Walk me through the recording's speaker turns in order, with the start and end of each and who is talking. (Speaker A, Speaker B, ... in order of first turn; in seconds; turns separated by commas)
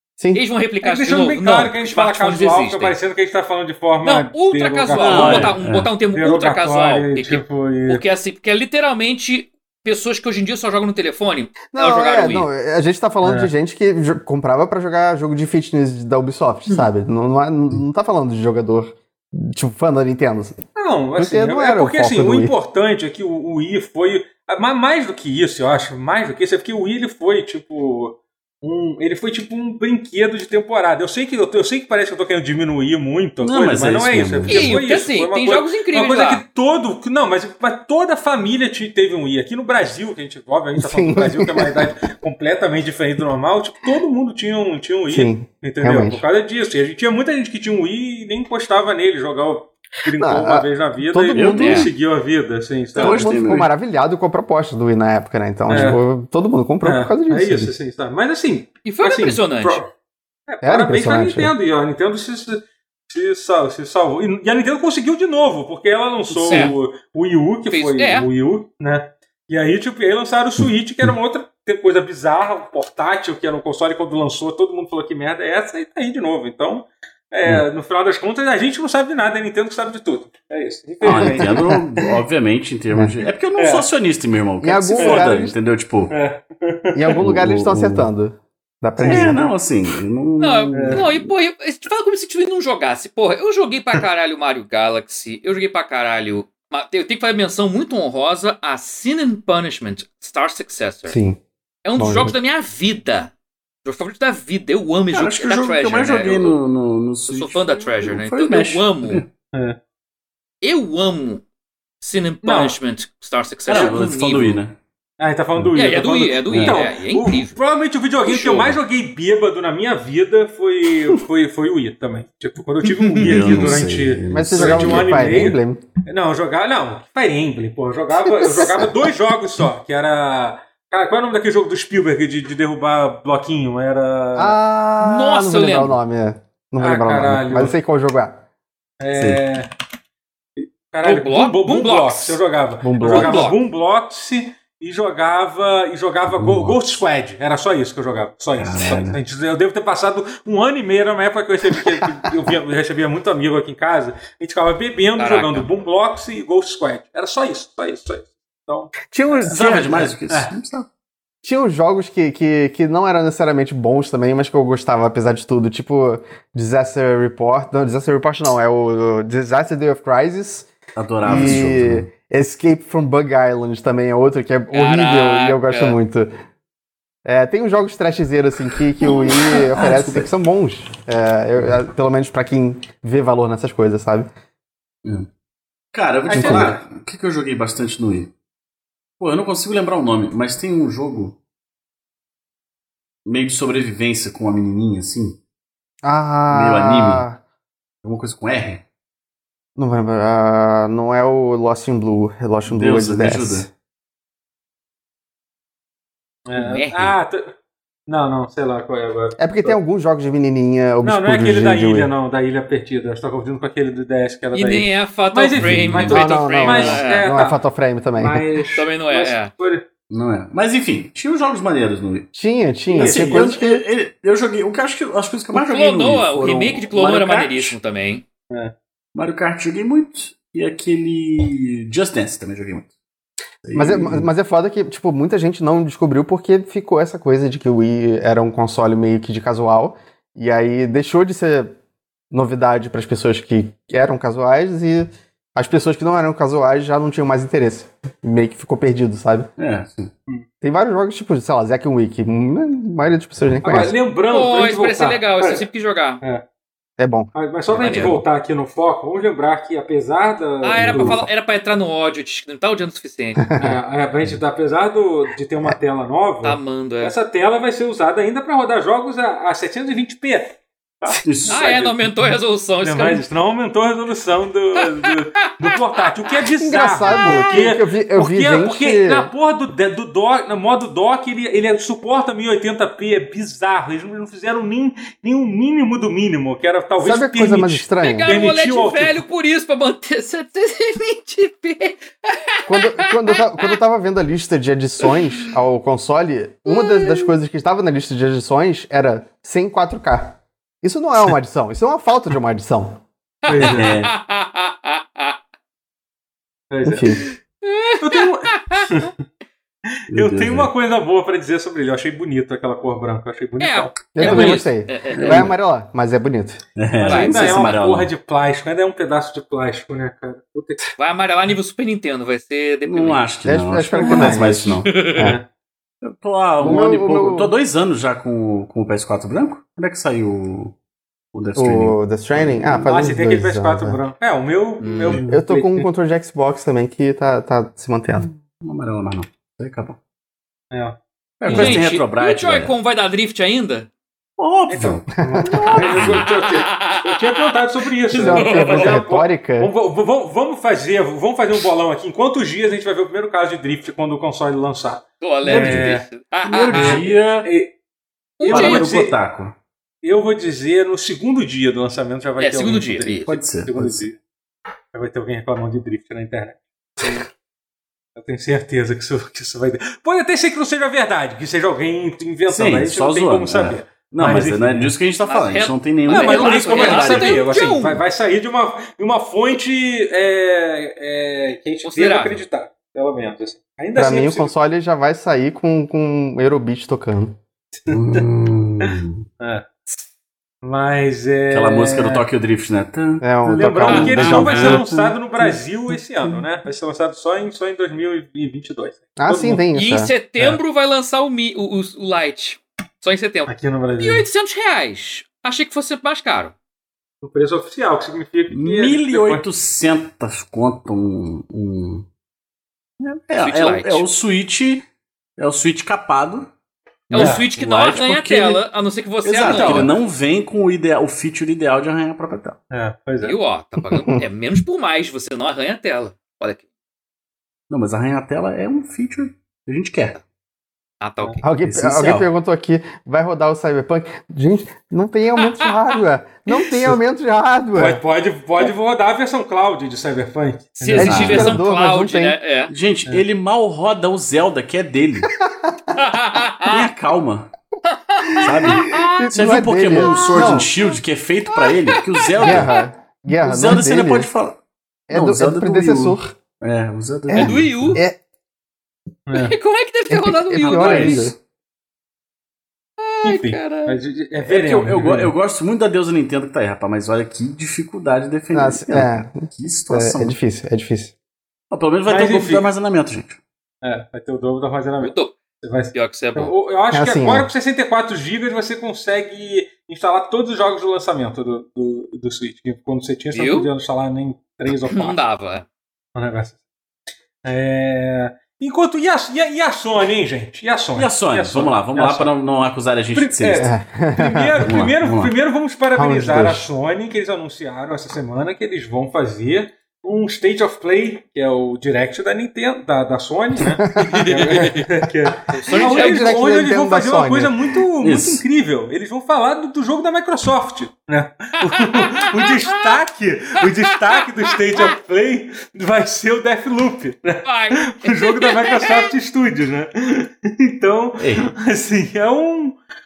Speaker A: 0.3-3.0, Speaker B: 0.8-5.6, Speaker A: 4.0-12.5, Speaker C: 5.0-5.9, Speaker B: 6.1-8.0, Speaker D: 11.7-20.6, Speaker B: 13.2-13.5, Speaker B: 20.8-53.4, Speaker D: 21.2-22.5, Speaker C: 33.4-34.7, Speaker A: 34.5-36.4, Speaker D: 40.8-41.9, Speaker D: 45.1-46.2, Speaker D: 50.2-51.9, Speaker C: 51.3-51.9, Speaker A: 51.6-51.9, Speaker D: 52.9-57.7, Speaker C: 53.0-53.7, Speaker B: 55.7-56.0, Speaker B: 56.8-59.9, Speaker A: 58.8-59.8, Speaker B: 60.5-81.8, Speaker D: 60.6-61.5, Speaker D: 66.3-66.7, Speaker A: 66.5-66.8, Speaker A: 67.7-68.3, Speaker C: 81.0-86.1, Speaker D: 81.0-81.8, Speaker B: 83.6-83.9, Speaker D: 84.6-85.5, Speaker B: 85.0-85.4, Speaker B: 86.1-87.2, Speaker D: 86.9-89.5, Speaker C: 87.2-88.1, Speaker B: 89.0-89.5, Speaker C: 89.0-91.3, Speaker A: 90.4-101.2, Speaker B: 90.7-91.0, Speaker D: 101.1-101.4, Speaker A: 101.8-103.3, Speaker D: 102.0-102.4, Speaker A: 103.8-106.6, Speaker C: 105.1-109.3, Speaker A: 107.3-109.2, Speaker A: 110.6-111.4, Speaker A: 112.0-114.6, Speaker B: 112.4-112.8, Speaker C: 113.7-114.8, Speaker B: 115.2-134.6, Speaker A: 115.7-117.5, Speaker C: 116.5-116.8, Speaker A: 118.3-118.7, Speaker A: 123.0-123.6, Speaker C: 123.2-125.3, Speaker D: 124.3-125.8, Speaker D: 128.4-128.9, Speaker D: 134.4-138.4, Speaker A: 135.0-136.0, Speaker B: 136.8-137.8, Speaker B: 139.0-139.7, Speaker C: 139.1-139.4, Speaker B: 140.6-159.7, Speaker A: 141.0-142.4, Speaker D: 142.8-143.5, Speaker A: 143.0-143.6, Speaker C: 146.3-146.8, Speaker C: 148.6-149.2, Speaker A: 155.2-155.7, Speaker D: 159.1-160.1, Speaker C: 159.5-160.9, Speaker D: 161.4-170.7, Speaker C: 170.9-172.1, Speaker D: 171.2-176.3, Speaker A: 174.7-176.0, Speaker D: 177.2-184.3, Speaker C: 179.0-180.3, Speaker C: 185.0-185.3, Speaker C: 185.9-188.3, Speaker B: 186.2-186.8, Speaker D: 186.3-186.8, Speaker C: 189.2-191.4, Speaker C: 193.2-195.4, Speaker D: 196.0-197.4, Speaker C: 196.5-197.2, Speaker C: 198.0-198.8, Speaker D: 199.8-203.7, Speaker C: 202.7-203.7, Speaker B: 206.5-207.5, Speaker A: 206.6-207.1, Speaker B: 208.1-209.8, Speaker D: 209.4-212.1, Speaker B: 211.0-217.6, Speaker A: 214.5-217.2, Speaker C: 215.6-216.2, Speaker D: 216.1-218.5, Speaker B: 218.2-219.8, Speaker A: 218.7-219.5, Speaker C: 220.1-222.3, Speaker D: 222.3-223.8, Speaker B: 222.9-223.6, Speaker C: 222.9-227.8, Speaker A: 225.5-228.2, Speaker C: 229.1-232.9, Speaker C: 233.6-234.3, Speaker D: 233.7-241.8, Speaker D: 242.3-249.5, Speaker C: 249.6-250.1, Speaker D: 250.6-253.9, Speaker B: 253.6-255.6, Speaker A: 254.3-256.2, Speaker D: 257.0-257.3, Speaker B: 257.3-261.2, Speaker A: 257.7-258.2, Speaker A: 260.6-263.4, Speaker C: 260.8-261.3, Speaker B: 263.6-271.7, Speaker A: 266.4-267.1, Speaker C: 271.2-271.9, Speaker A: 271.5-273.2, Speaker B: 272.8-289.2, Speaker A: 274.8-276.1, Speaker D: 276.6-279.3, Speaker A: 277.0-277.7, Speaker D: 287.0-288.3, Speaker A: 288.0-293.8, Speaker D: 292.7-303.0, Speaker A: 295.0-295.4, Speaker A: 296.7-297.3, Speaker A: 303.4-305.4, Speaker B: 303.5-303.9, Speaker C: 303.6-304.1, Speaker B: 306.7-307.1, Speaker D: 306.8-307.2, Speaker A: 307.2-309.0, Speaker B: 308.0-309.1, Speaker B: 309.9-314.1, Speaker C: 310.1-310.7, Speaker A: 313.6-315.5, Speaker D: 314.1-316.6, Speaker C: 314.2-314.6, Speaker C: 315.1-315.5, Speaker C: 316.8-318.1, Speaker B: 317.0-320.9, Speaker A: 317.0-317.7, Speaker A: 321.0-323.2, Speaker C: 322.9-325.0, Speaker D: 323.4-325.4, Speaker A: 324.1-325.3, Speaker B: 325.1-325.4, Speaker C: 326.0-330.7, Speaker D: 326.6-327.5, Speaker C: 331.3-333.1, Speaker D: 331.6-334.0, Speaker B: 332.8-335.9, Speaker A: 334.8-335.2, Speaker D: 335.2-338.3, Speaker C: 338.2-340.0, Speaker B: 340.7-341.8, Speaker C: 341.4-342.7, Speaker A: 341.5-343.9, Speaker C: 344.4-346.3, Speaker B: 344.7-356.0, Speaker D: 345.2-345.8, Speaker A: 345.8-349.0, Speaker D: 348.1-349.7, Speaker A: 355.2-357.1, Speaker C: 355.5-355.9, Speaker C: 356.4-357.5, Speaker B: 356.7-357.7, Speaker A: 358.4-358.9, Speaker B: 358.4-359.1, Speaker C: 358.5-359.5, Speaker B: 360.0-364.2, Speaker A: 362.4-363.4, Speaker C: 363.2-364.0, Speaker B: 364.9-367.2, Speaker B: 368.1-374.9, Speaker C: 372.5-377.7, Speaker A: 375.2-378.0, Speaker B: 376.1-384.5, Speaker A: 381.8-382.4, Speaker D: 383.9-387.4, Speaker B: 387.9-388.2, Speaker C: 387.9-389.2, Speaker B: 389.4-389.7, Speaker B: 390.6-392.2, Speaker C: 391.5-395.5, Speaker D: 393.2-394.8, Speaker B: 393.4-399.6, Speaker A: 393.9-394.8, Speaker D: 399.1-400.1, Speaker A: 399.7-406.5, Speaker B: 403.5-404.2, Speaker B: 407.2-409.4, Speaker C: 408.5-412.1, Speaker C: 413.0-416.5, Speaker A: 413.4-414.0, Speaker C: 417.1-418.6, Speaker A: 417.1-419.9, Speaker B: 417.1-417.4, Speaker C: 419.2-422.6, Speaker B: 419.4-420.0, Speaker B: 422.7-423.4, Speaker A: 423.2-426.6, Speaker D: 423.8-424.2, Speaker C: 427.7-430.2, Speaker A: 431.0-431.4, Speaker D: 431.4-438.0, Speaker C: 431.6-432.3, Speaker A: 435.4-435.7, Speaker B: 437.7-441.5, Speaker A: 440.8-442.7, Speaker C: 440.9-441.6, Speaker D: 440.9-442.4, Speaker C: 442.7-445.3, Speaker A: 445.9-446.9, Speaker C: 446.6-447.5, Speaker A: 447.8-449.3, Speaker C: 448.3-458.0, Speaker D: 448.8-450.7, Speaker A: 450.0-450.6, Speaker A: 451.5-452.8, Speaker D: 452.4-454.3, Speaker D: 455.1-456.3, Speaker D: 457.3-458.2, Speaker A: 457.3-458.0, Speaker B: 459.3-459.5, Speaker A: 459.3-461.3, Speaker D: 460.1-461.4, Speaker C: 460.6-461.3, Speaker A: 463.0-464.0, Speaker B: 463.2-465.3, Speaker C: 464.4-470.3, Speaker D: 468.5-471.1, Speaker C: 471.7-473.4, Speaker B: 472.1-472.7, Speaker B: 473.8-485.2, Speaker A: 475.0-475.3, Speaker A: 475.9-476.5, Speaker D: 476.9-477.5, Speaker A: 483.3-483.7, Speaker A: 484.8-485.6, Speaker B: 486.1-486.6, Speaker B: 487.4-492.3, Speaker C: 490.9-493.7, Speaker B: 493.1-522.8, Speaker D: 493.6-494.7, Speaker C: 494.6-495.3, Speaker D: 495.9-496.7, Speaker D: 503.8-504.8, Speaker A: 504.0-504.8, Speaker A: 505.5-506.3, Speaker D: 505.7-507.7, Speaker C: 508.0-508.4, Speaker A: 511.6-512.9, Speaker A: 513.8-514.9, Speaker A: 517.5-519.1, Speaker C: 521.2-521.5